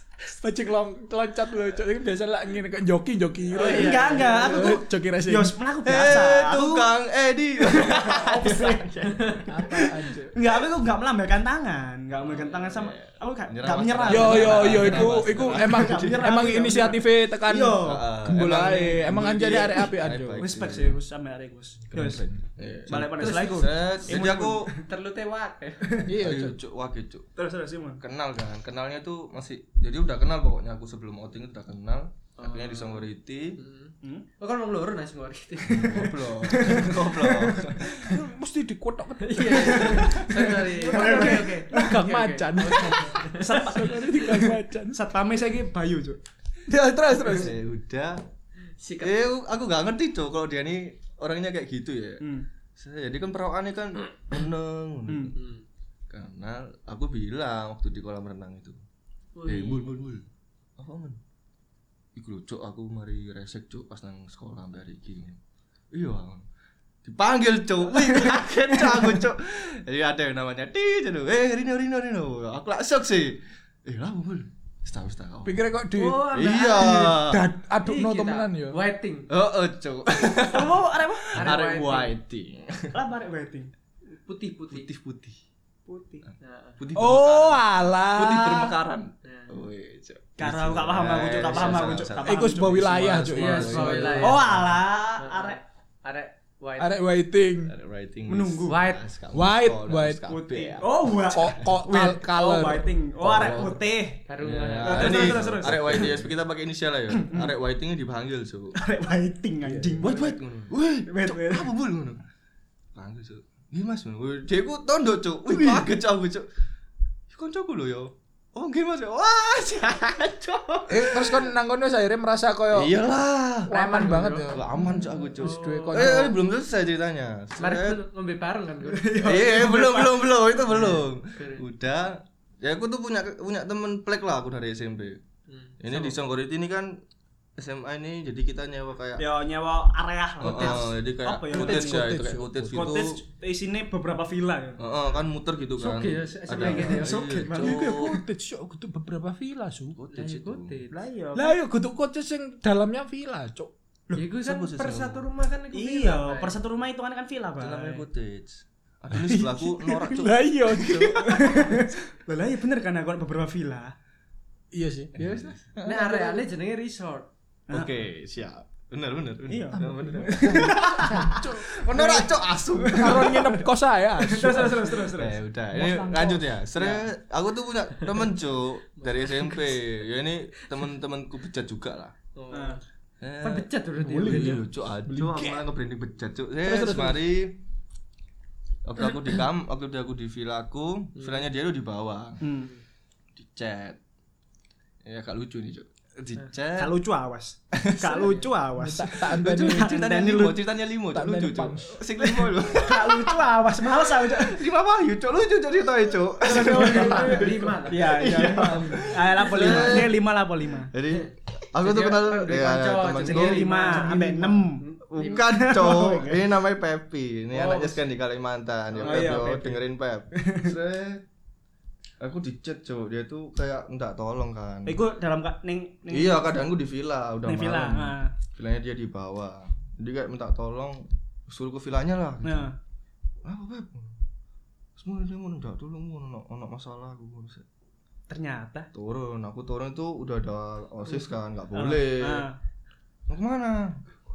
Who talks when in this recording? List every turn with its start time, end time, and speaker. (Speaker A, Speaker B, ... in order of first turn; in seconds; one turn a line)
Speaker A: 0.2-5.5
Speaker B: 3.5-4.8
Speaker C: 3.5-6.9
Speaker D: 5.8-9.9
Speaker C: 7.6-9.0
Speaker B: 9.1-9.4
Speaker A: 9.5-10.3
Speaker C: 9.8-18.1
Speaker B: 12.2-12.8
Speaker D: 12.7-16.3
Speaker A: 14.1-20.5
Speaker D: 17.8-21.0
Speaker C: 19.5-19.9
Speaker C: 20.4-22.2
Speaker D: 21.9-24.7
Speaker A: 21.9-22.3
Speaker C: 22.9-24.8
Speaker A: 22.9-23.6
Speaker B: 24.8-25.9
Speaker A: 26.0-26.6
Speaker D: 26.1-27.3
Speaker C: 27.4-28.0
Speaker D: 28.0-33.6
Speaker B: 32.4-33.0
Speaker B: 33.6-36.1
Speaker D: 35.7-38.1
Speaker C: 35.7-38.1
Speaker A: 38.0-45.0
Speaker B: 39.2-43.7
Speaker C: 39.6-41.7
Speaker C: 43.4-46.2
Speaker A: 46.7-47.5
Speaker D: 47.2-48.2
Speaker B: 48.8-49.2
Speaker D: 49.0-52.2
Speaker C: 52.2-52.5
Speaker D: 52.8-55.4
Speaker C: 55.1-55.4
Speaker B: 55.4-55.6
Speaker D: 56.1-58.8
Speaker B: 59.4-59.9
Speaker D: 59.5-60.2
Speaker D: 60.8-61.2
Speaker D: 62.1-65.4
Speaker D: 65.9-66.4
Speaker D: 67.0-75.6
Speaker A: 75.5-76.2
Speaker B: 75.9-77.2
Speaker D: 76.3-77.4
Speaker A: 77.0-78.8
Speaker B: 77.8-79.3
Speaker D: 79.3-83.0
Speaker C: 80.4-81.5
Speaker B: 81.3-82.1
Speaker C: 82.9-83.7
Speaker B: 84.1-84.9
Speaker D: 84.7-85.4
Speaker C: 85.9-86.2
Speaker B: 86.4-86.8
Speaker D: 86.8-94.8
Speaker A: 86.9-88.8
Speaker B: 89.2-89.5
Speaker C: 90.4-93.2
Speaker A: 92.2-94.5
Speaker B: 93.3-94.5
Speaker C: 94.2-95.6
Speaker B: 95.2-97.0
Speaker A: 96.8-97.7
Speaker D: 97.7-100.9
Speaker C: 98.3-98.8
Speaker B: 98.7-99.0
Speaker A: 99.3-100.4
Speaker C: 100.3-104.2
Speaker A: 101.3-102.9
Speaker D: 103.2-103.8
Speaker B: 104.3-105.5
Speaker D: 104.4-108.8
Speaker C: 104.8-106.2
Speaker C: 107.1-107.5
Speaker C: 108.8-110.4
Speaker A: 109.6-110.0
Speaker D: 110.0-112.2
Speaker C: 111.1-111.7
Speaker D: 113.0-116.5
Speaker C: 115.5-115.9
Speaker D: 117.3-121.5
Speaker A: 120.9-122.9
Speaker D: 122.7-123.7
Speaker A: 123.7-126.4
Speaker B: 123.7-124.6
Speaker D: 124.5-128.0
Speaker B: 125.4-126.2
Speaker B: 127.6-129.3
Speaker C: 128.8-131.0
Speaker D: 129.2-135.2
Speaker B: 131.3-131.6
Speaker B: 135.5-136.2
Speaker D: 135.8-136.9
Speaker D: 137.6-139.2
Speaker C: 139.2-142.2
Speaker D: 140.4-143.2
Speaker A: 141.5-142.8
Speaker C: 142.7-144.8
Speaker D: 144.8-148.2
Speaker B: 145.8-147.4
Speaker C: 146.6-148.0
Speaker A: 147.5-150.0
Speaker D: 149.9-150.8
Speaker B: 150.1-151.0
Speaker C: 150.9-151.6
Speaker A: 151.3-153.7
Speaker B: 154.2-156.6
Speaker D: 154.4-155.2
Speaker C: 155.7-158.0
Speaker D: 157.6-161.8
Speaker A: 159.8-161.8
Speaker C: 161.1-163.9
Speaker A: 164.7-166.4
Speaker D: 165.2-165.7
Speaker B: 165.8-167.3
Speaker D: 167.7-173.6
Speaker C: 169.5-173.6
Speaker A: 170.2-171.8
Speaker A: 172.9-175.1
Speaker C: 174.2-177.1
Speaker D: 175.1-182.1
Speaker B: 179.1-179.6
Speaker B: 182.3-182.8
Speaker C: 182.5-182.8
Speaker D: 183.2-187.6
Speaker B: 183.4-184.6
Speaker A: 184.1-185.6
Speaker A: 186.6-187.2
Speaker D: 188.8-192.4
Speaker B: 191.2-191.4
Speaker C: 192.4-192.7
Speaker D: 193.3-194.0
Speaker D: 195.0-196.9
Speaker C: 196.8-200.6
Speaker D: 197.7-198.4
Speaker A: 198.8-199.9
Speaker D: 199.3-210.2
Speaker A: 201.1-202.0
Speaker C: 202.2-204.6
Speaker C: 206.4-210.9
Speaker B: 206.7-208.5
Speaker D: 210.9-214.2
Speaker B: 211.1-215.5
Speaker C: 213.2-216.4
Speaker D: 215.1-221.2
Speaker B: 217.5-218.0
Speaker B: 218.9-219.4
Speaker C: 219.0-219.8
Speaker C: 220.3-220.7
Speaker D: 222.2-225.0
Speaker C: 224.8-226.6
Speaker D: 226.1-232.7
Speaker C: 227.5-228.3
Speaker C: 232.4-232.8
Speaker D: 233.4-234.2
Speaker D: 235.0-237.7
Speaker C: 238.3-238.9
Speaker D: 238.9-242.5
Speaker C: 241.7-242.6
Speaker D: 243.3-244.0